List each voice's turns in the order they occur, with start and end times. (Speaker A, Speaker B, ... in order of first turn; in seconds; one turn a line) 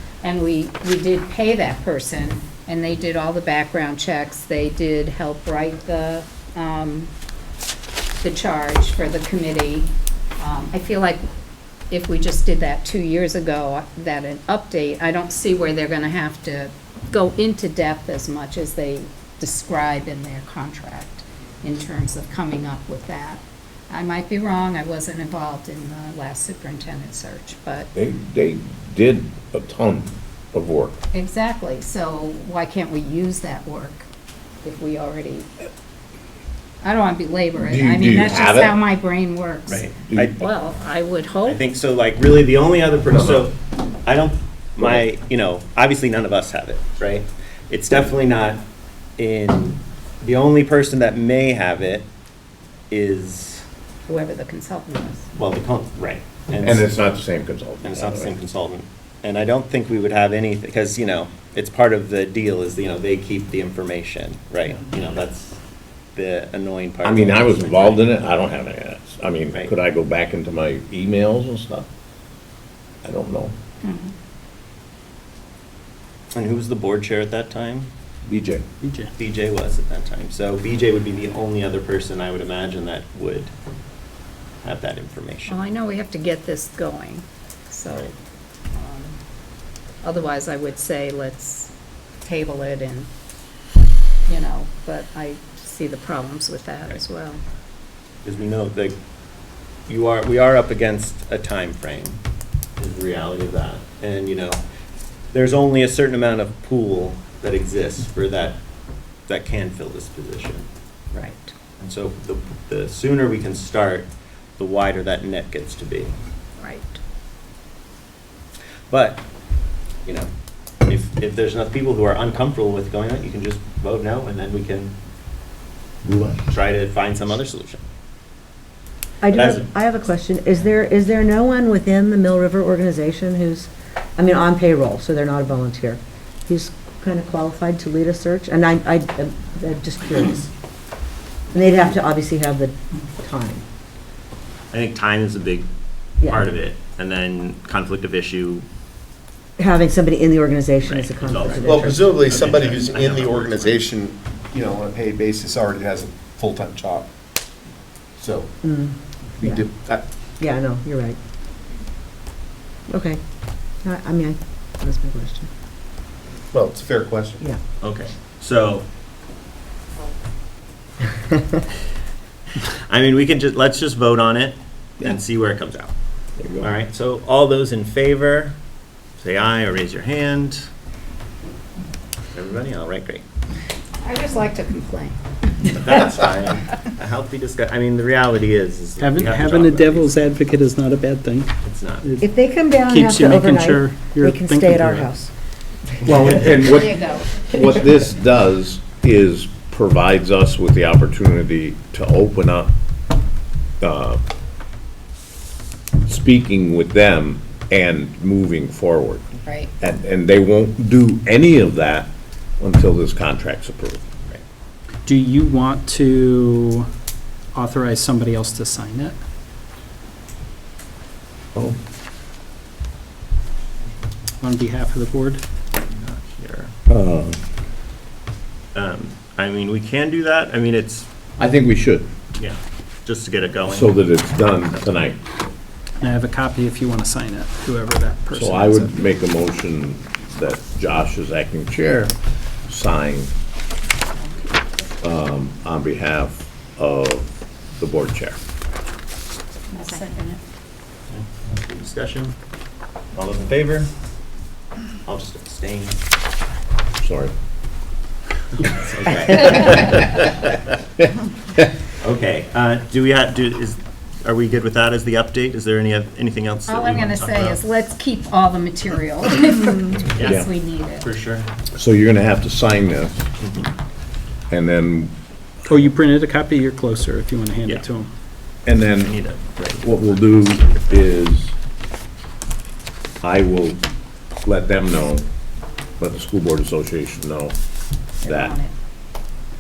Speaker A: 0.2-7.1
Speaker A: 8.2-11.2
Speaker A: 11.9-27.9
Speaker B: 27.9-31.0
Speaker A: 31.1-34.1
Speaker A: 34.6-35.5
Speaker A: 36.8-41.6
Speaker B: 37.6-38.8
Speaker C: 39.7-40.4
Speaker B: 40.1-40.3
Speaker C: 41.5-43.5
Speaker C: 44.0-48.6
Speaker C: 49.2-52.1
Speaker C: 52.9-53.6
Speaker A: 54.1-55.2
Speaker C: 55.3-56.9
Speaker B: 56.6-58.3
Speaker C: 57.8-65.6
Speaker C: 66.1-68.1
Speaker B: 67.0-71.9
Speaker B: 73.0-73.5
Speaker A: 73.8-74.1
Speaker C: 76.3-77.9
Speaker B: 78.3-78.7
Speaker D: 78.8-79.1
Speaker C: 79.2-83.5
Speaker C: 84.6-85.7
Speaker A: 85.5-88.1
Speaker A: 88.7-89.2
Speaker A: 90.0-91.7
Speaker A: 92.2-93.1
Speaker A: 94.3-97.4
Speaker C: 98.2-99.0
Speaker C: 99.9-102.2
Speaker C: 102.8-104.6
Speaker C: 105.3-108.6
Speaker C: 109.3-110.7
Speaker A: 111.1-111.5
Speaker C: 111.8-116.1
Speaker A: 116.6-117.0
Speaker C: 118.9-119.2
Speaker C: 120.0-120.3
Speaker C: 120.8-124.9
Speaker B: 126.0-126.5
Speaker C: 126.5-127.8
Speaker E: 129.2-140.5
Speaker C: 129.3-129.7
Speaker E: 141.5-143.6
Speaker C: 144.7-145.7
Speaker C: 146.2-148.7
Speaker E: 149.6-152.2
Speaker C: 150.8-153.8
Speaker F: 151.5-157.1
Speaker F: 158.2-158.5
Speaker E: 158.6-159.7
Speaker F: 159.4-160.0
Speaker E: 160.4-161.2
Speaker E: 162.9-163.2
Speaker E: 163.8-165.5
Speaker F: 166.5-167.4
Speaker C: 167.8-168.8
Speaker C: 172.9-175.9
Speaker B: 176.4-176.7
Speaker C: 176.6-178.5
Speaker C: 179.2-180.7
Speaker C: 182.3-183.2
Speaker A: 184.0-185.2
Speaker C: 185.7-190.2
Speaker D: 189.0-191.5
Speaker C: 191.6-192.1
Speaker D: 192.0-192.3
Speaker E: 192.2-195.3
Speaker D: 192.9-195.1
Speaker B: 196.1-202.7
Speaker A: 196.5-197.4
Speaker B: 203.8-204.2
Speaker B: 206.1-214.1
Speaker A: 209.4-209.7
Speaker D: 215.1-216.9
Speaker D: 217.5-219.2
Speaker D: 224.4-225.4
Speaker C: 225.8-226.7
Speaker B: 226.9-227.4
Speaker C: 228.7-231.1
Speaker B: 231.4-232.1
Speaker C: 232.3-234.0
Speaker B: 233.7-235.2
Speaker D: 236.0-239.1
Speaker B: 238.3-242.1
Speaker B: 242.7-243.3
Speaker A: 244.2-244.6
Speaker B: 245.0-248.4
Speaker A: 249.7-250.4
Speaker C: 251.1-252.3
Speaker C: 253.1-253.9
Speaker C: 255.1-256.0
Speaker B: 257.0-257.3
Speaker C: 258.6-260.5
Speaker B: 259.4-260.1
Speaker C: 262.0-267.6
Speaker A: 266.7-271.1
Speaker C: 270.1-270.5
Speaker B: 270.2-270.5
Speaker C: 271.0-271.5
Speaker B: 271.7-273.3
Speaker C: 273.4-273.7
Speaker B: 274.5-275.1
Speaker D: 275.7-278.1
Speaker B: 278.7-281.5
Speaker C: 278.9-281.2
Speaker B: 283.2-283.8
Speaker B: 284.4-285.3
Speaker B: 286.0-287.6
Speaker B: 288.2-288.6
Speaker A: 288.2-288.7